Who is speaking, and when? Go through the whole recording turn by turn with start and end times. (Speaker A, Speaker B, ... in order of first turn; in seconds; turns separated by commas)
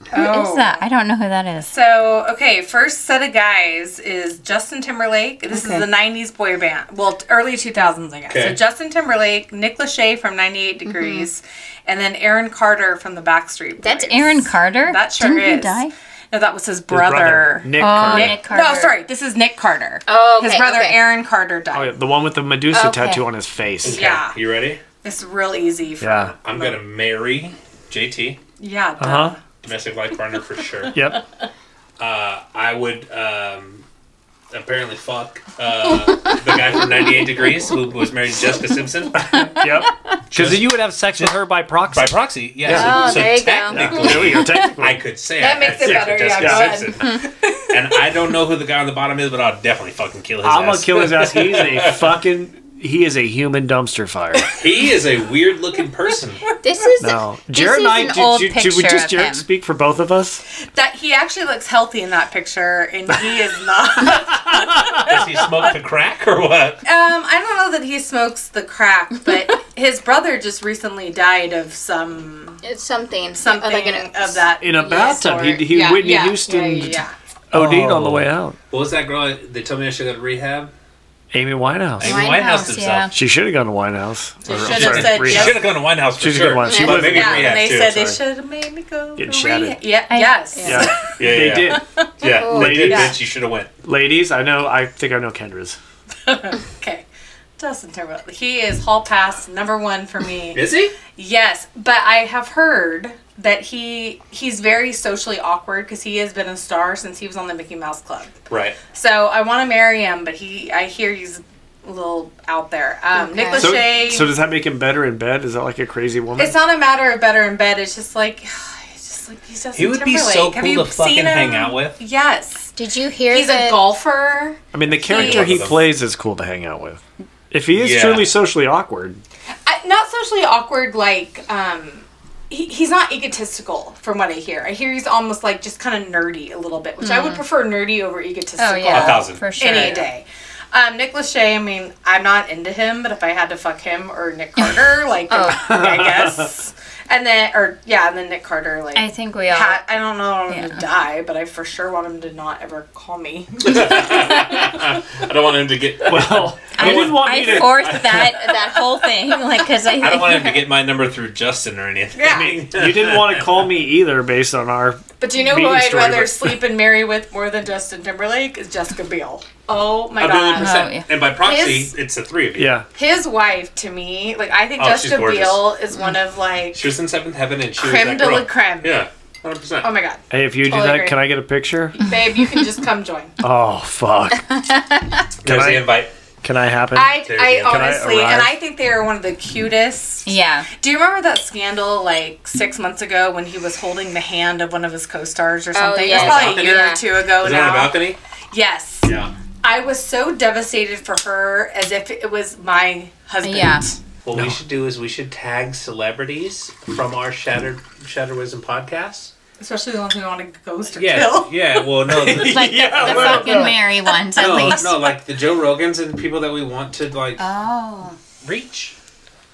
Speaker A: 0.1-1.7, Speaker B: 0.1-0.8, Speaker B: 1.7-21.9, Speaker A: 5.5-5.9, Speaker C: 8.3-8.6, Speaker A: 10.8-11.3, Speaker A: 13.8-15.9, Speaker D: 16.9-18.4, Speaker A: 17.8-18.9, Speaker A: 20.1-21.0, Speaker D: 21.7-24.1, Speaker A: 22.7-23.2, Speaker C: 23.8-24.8, Speaker B: 23.9-24.4, Speaker B: 25.0-26.8, Speaker D: 26.0-26.3, Speaker C: 26.4-28.4, Speaker B: 28.6-29.4, Speaker D: 29.0-29.4, Speaker C: 29.6-31.0, Speaker D: 30.9-31.2, Speaker C: 32.0-33.8, Speaker C: 34.5-39.5, Speaker D: 39.3-45.0, Speaker A: 39.4-39.7, Speaker C: 40.3-41.4, Speaker C: 41.9-52.0, Speaker A: 42.7-44.6, Speaker B: 45.4-47.8, Speaker D: 45.7-46.8, Speaker D: 50.4-54.5, Speaker C: 54.5-56.4, Speaker B: 56.5-57.0, Speaker A: 56.6-59.4, Speaker D: 57.0-60.4, Speaker B: 60.7-65.0, Speaker D: 64.5-64.9, Speaker C: 65.0-66.8, Speaker B: 66.8-72.6, Speaker A: 72.6-74.4, Speaker B: 73.3-77.1, Speaker D: 74.6-78.6, Speaker C: 77.5-80.7, Speaker D: 81.3-82.2, Speaker C: 82.0-83.1, Speaker A: 82.0-83.1, Speaker D: 83.1-88.2, Speaker B: 84.4-85.7, Speaker C: 84.5-88.1, Speaker A: 86.6-87.1, Speaker B: 86.9-91.2, Speaker D: 89.2-89.8, Speaker A: 90.1-90.9, Speaker D: 90.6-91.8, Speaker C: 91.2-93.7, Speaker B: 91.7-92.3, Speaker A: 92.3-92.9, Speaker D: 92.4-93.2, Speaker B: 92.9-93.1, Speaker D: 93.8-95.8, Speaker B: 96.2-97.0, Speaker B: 97.6-100.6, Speaker C: 100.5-100.9, Speaker B: 101.1-108.3, Speaker C: 108.5-108.8, Speaker B: 108.9-114.3, Speaker A: 113.1-113.8, Speaker D: 113.6-116.5, Speaker B: 116.4-122.7, Speaker C: 119.7-122.0, Speaker A: 122.8-123.9, Speaker B: 123.3-125.6, Speaker D: 124.7-129.2, Speaker C: 125.0-125.8, Speaker C: 127.7-128.3, Speaker B: 129.6-154.8, Speaker A: 137.0-137.4, Speaker A: 138.6-140.1, Speaker C: 138.8-140.0, Speaker A: 145.3-145.7, Speaker D: 145.7-146.4, Speaker A: 148.9-149.8, Speaker A: 150.5-150.8, Speaker C: 153.6-158.3, Speaker D: 156.1-158.0, Speaker A: 156.7-160.6, Speaker C: 160.0-163.6, Speaker B: 162.1-162.6, Speaker D: 162.7-166.6, Speaker B: 165.2-171.9, Speaker C: 170.2-172.7, Speaker A: 170.5-171.0, Speaker D: 172.6-172.8, Speaker B: 172.9-176.9, Speaker C: 174.8-175.7, Speaker C: 176.7-179.9, Speaker B: 177.8-179.0, Speaker B: 179.8-181.2, Speaker D: 180.3-181.9, Speaker B: 181.9-183.3, Speaker A: 182.0-182.7, Speaker D: 183.4-184.5, Speaker A: 184.5-185.2, Speaker C: 185.4-186.1, Speaker D: 185.4-188.5, Speaker B: 186.9-198.0, Speaker C: 187.2-188.0, Speaker A: 190.2-190.7, Speaker A: 195.7-197.0, Speaker C: 196.1-198.2, Speaker B: 198.5-199.1, Speaker C: 199.0-199.3, Speaker B: 199.6-203.9, Speaker A: 203.4-203.9, Speaker C: 204.2-209.3, Speaker B: 209.6-211.8, Speaker C: 210.9-213.7, Speaker D: 212.2-213.8, Speaker A: 212.3-214.9, Speaker B: 213.4-213.7, Speaker C: 214.3-217.5, Speaker A: 217.4-218.2, Speaker C: 218.4-218.9